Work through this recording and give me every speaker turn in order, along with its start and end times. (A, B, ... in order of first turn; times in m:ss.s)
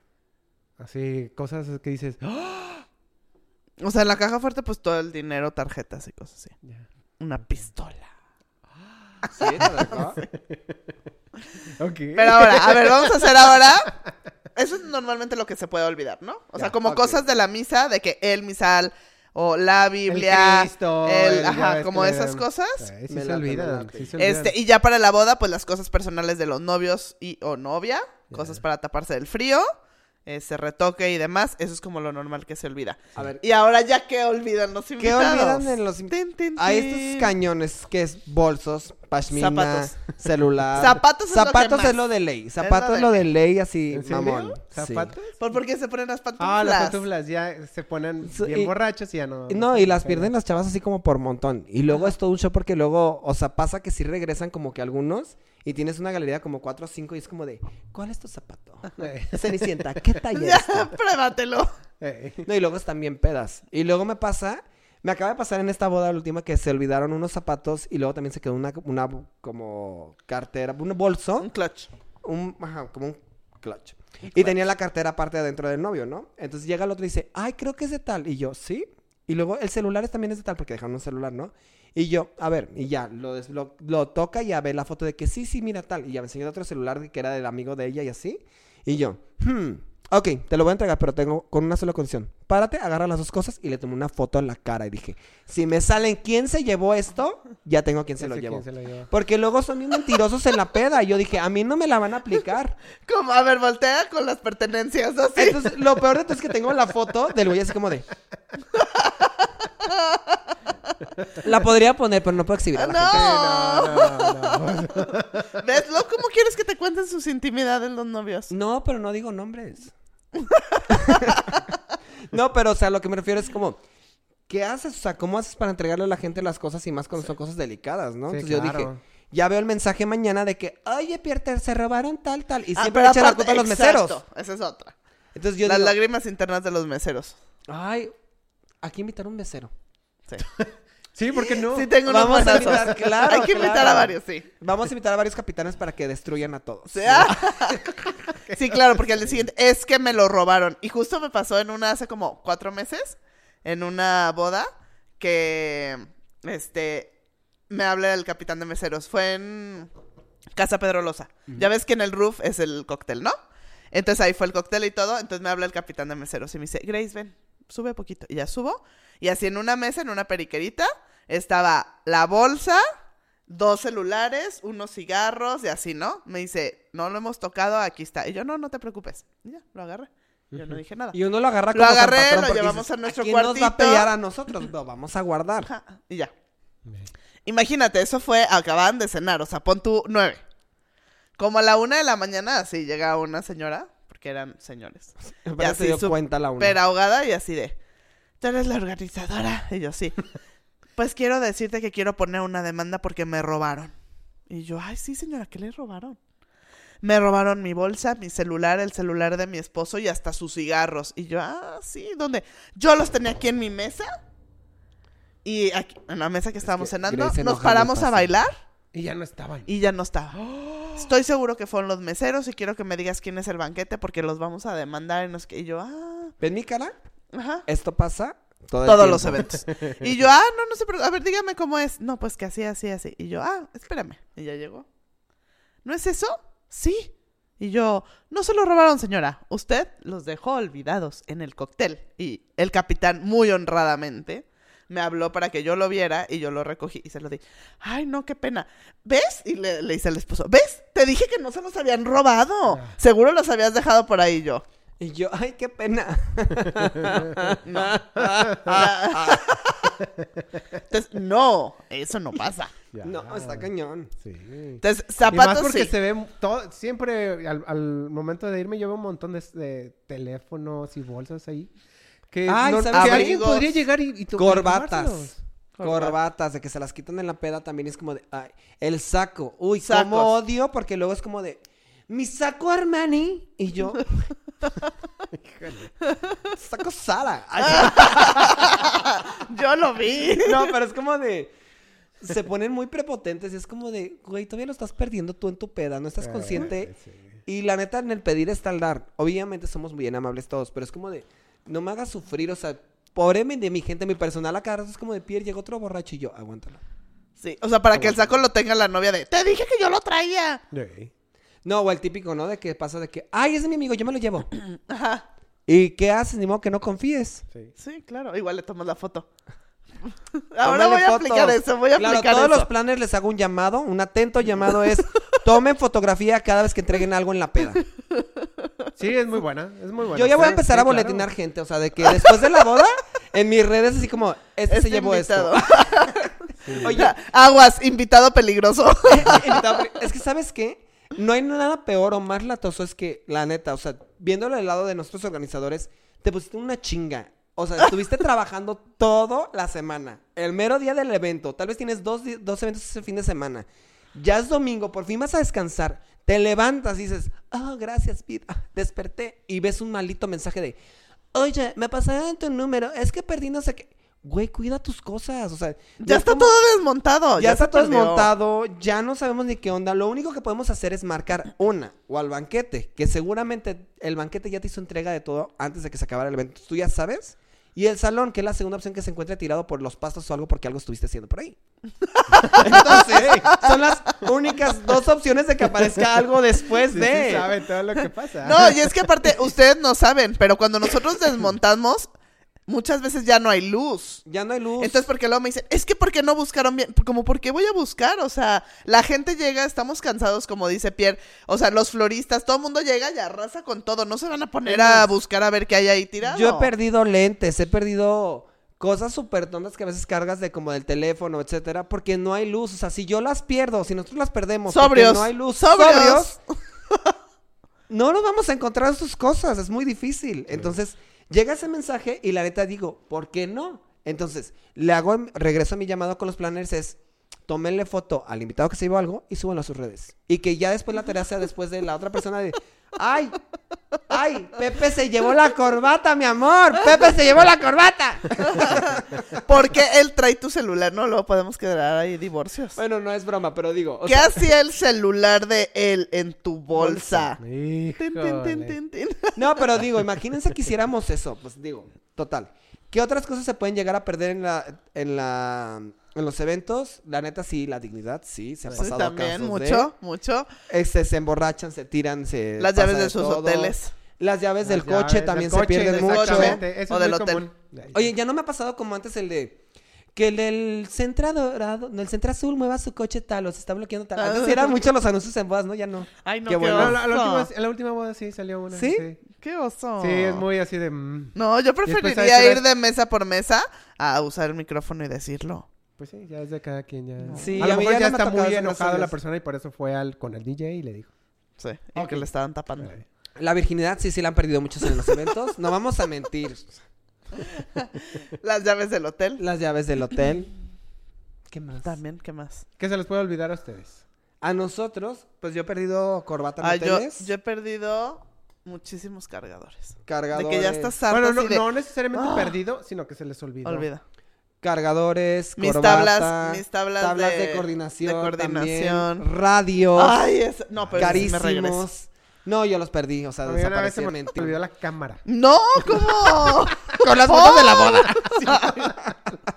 0:00.8-0:02.8 A
0:03.8-0:06.5 B
0:07.2-0:08.1 B
0:09.2-0:10.8 A
0:09.3-0:10.2 C
0:09.4-0:10.1 B
0:11.8-0:13.9 A
0:12.2-0:13.9 B
0:14.5-0:22.8 B
0:16.8-0:17.2 C
0:20.1-0:24.5 A
0:23.1-0:24.1 C
0:24.2-0:29.7 B
0:28.3-0:28.6 A
0:30.2-0:37.3 B
0:33.2-0:33.4 C
0:35.0-0:45.1 C
0:39.3-0:40.1 B
0:40.8-0:42.0 B
0:42.6-0:43.2 B
0:43.9-0:45.4 A
0:45.4-0:47.0 B
0:46.4-0:50.3 A
0:48.2-0:48.7 C
0:49.5-1:00.9 C
0:59.0-1:00.2 A
1:00.3-1:01.7 B
1:02.0-1:02.5 A
1:02.4-1:11.5 C
1:11.4-1:11.9 B
1:12.2-1:42.8 C
1:38.2-1:39.1 A
1:43.0-1:45.7 B
1:45.4-1:48.0 C
1:48.7-1:50.4 B
1:51.4-1:53.4 C
1:52.7-1:58.5 B
1:53.0-1:55.6 A
1:58.5-1:59.9 C
2:00.3-2:01.6 B
2:00.9-2:01.6 C
2:02.3-2:03.8 C
2:04.5-2:14.2 C
2:08.3-2:09.0 A
2:12.8-2:14.9 B
2:15.3-2:16.0 C
2:15.6-2:17.4 B
2:17.7-2:18.1 C
2:18.8-2:19.7 C
2:20.6-2:23.0 A
2:21.4-2:24.5 B
2:22.0-2:27.6 C
2:26.9-2:27.9 B
2:28.5-2:29.4 A
2:28.5-2:37.1 B
2:37.7-2:39.9 B
2:40.6-2:43.3 B
2:43.9-2:52.8 B
2:53.5-3:01.2 B
3:01.1-3:05.7 C
3:01.7-3:04.1 B
3:05.6-3:06.3 B
3:06.8-3:07.1 A
3:07.4-3:10.4 B
3:11.4-3:17.8 B
3:15.4-3:16.8 C
3:18.4-3:20.2 B
3:21.0-3:23.9 B
3:24.5-3:26.2 B
3:27.0-3:34.1 B
3:35.4-3:38.5 B
3:36.6-3:38.3 C
3:38.9-3:39.7 A
3:39.7-3:46.3 B
3:40.4-3:41.1 A
3:46.4-3:46.9 C
3:47.3-3:47.6 B
3:47.6-3:49.5 C
3:48.8-3:54.8 B
3:55.8-4:14.6 B
4:12.7-4:13.0 A
4:15.0-4:19.9 C
4:16.6-4:17.5 A
4:17.6-4:19.8 B
4:18.2-4:18.8 A
4:20.0-4:20.5 A
4:20.9-4:22.7 B
4:22.9-4:23.7 A
4:23.0-4:24.1 C
4:24.2-4:31.7 A
4:24.8-4:25.9 B
4:32.3-4:35.4 A
4:32.5-4:33.6 C
4:32.9-4:33.7 B
4:34.4-4:44.2 C
4:35.8-4:36.2 B
4:39.8-4:40.3 B
4:45.3-4:45.9 A
4:46.5-4:48.9 C
4:47.6-4:50.7 B
4:50.4-4:51.5 C
4:52.2-4:56.9 C
4:56.2-4:57.4 A
4:57.4-5:06.8 C
5:07.4-5:10.6 B
5:10.7-5:11.1 A
5:11.6-5:14.5 C
5:14.8-5:15.2 B
5:15.7-5:17.4 C
5:17.8-5:19.3 B
5:20.5-5:22.7 B
5:20.6-5:27.8 C
5:28.1-5:28.4 B
5:29.0-5:31.2 A
5:30.1-5:36.0 C
5:32.1-5:32.5 B
5:34.7-5:39.8 B
5:36.6-5:37.0 A
5:36.7-5:37.1 C
5:39.1-6:00.8 C
6:01.3-6:06.6 C
6:06.0-6:08.3 B
6:07.4-6:21.6 C
6:22.2-6:23.8 B
6:22.4-6:23.5 A
6:22.5-6:27.5 C
6:26.8-6:28.9 A
6:28.4-6:32.1 B
6:32.7-6:34.2 B
6:34.2-6:35.1 C
6:34.8-6:46.7 B
6:44.6-6:45.1 C
6:46.2-6:56.4 C
6:54.7-6:56.4 B
6:57.9-7:13.4 C
7:14.1-7:19.2 C
7:18.4-7:22.8 B
7:22.8-7:24.5 C
7:24.0-7:27.4 B
7:26.7-7:27.3 C
7:27.4-7:28.8 A
7:28.0-7:29.5 B
7:29.4-7:39.9 C
7:38.7-7:40.5 B
7:40.7-7:46.6 C
7:42.6-7:43.9 B
7:44.6-7:48.0 A
7:45.8-7:47.4 B
7:47.9-7:49.6 C
7:50.1-7:57.0 C
7:54.2-7:54.8 B
7:56.2-7:57.5 B
7:56.7-7:59.2 A
7:58.7-7:59.0 C
7:59.4-8:00.4 B
8:00.0-8:02.6 A
8:01.3-8:05.6 B
8:06.0-8:11.1 A
8:07.2-8:07.7 B
8:07.3-8:09.1 C
8:11.6-8:12.9 B
8:12.0-8:12.2 C
8:12.8-8:13.0 A
8:13.4-8:16.8 C
8:14.8-8:15.2 B
8:17.4-8:19.4 B
8:19.4-8:20.5 C
8:21.5-8:22.0 C
8:21.8-8:22.6 B
8:22.8-8:24.0 A
8:24.4-8:27.3 C
8:26.6-8:32.6 B
8:30.1-8:30.9 C
8:31.1-8:33.9 A
8:33.6-8:34.0 B
8:34.6-8:40.2 C
8:35.6-8:39.2 B
8:39.9-8:41.8 B
8:40.8-8:41.3 A
8:41.0-8:44.6 C
8:43.4-8:45.2 A
8:45.2-8:48.9 B
8:46.9-8:48.3 C
8:48.1-8:49.4 A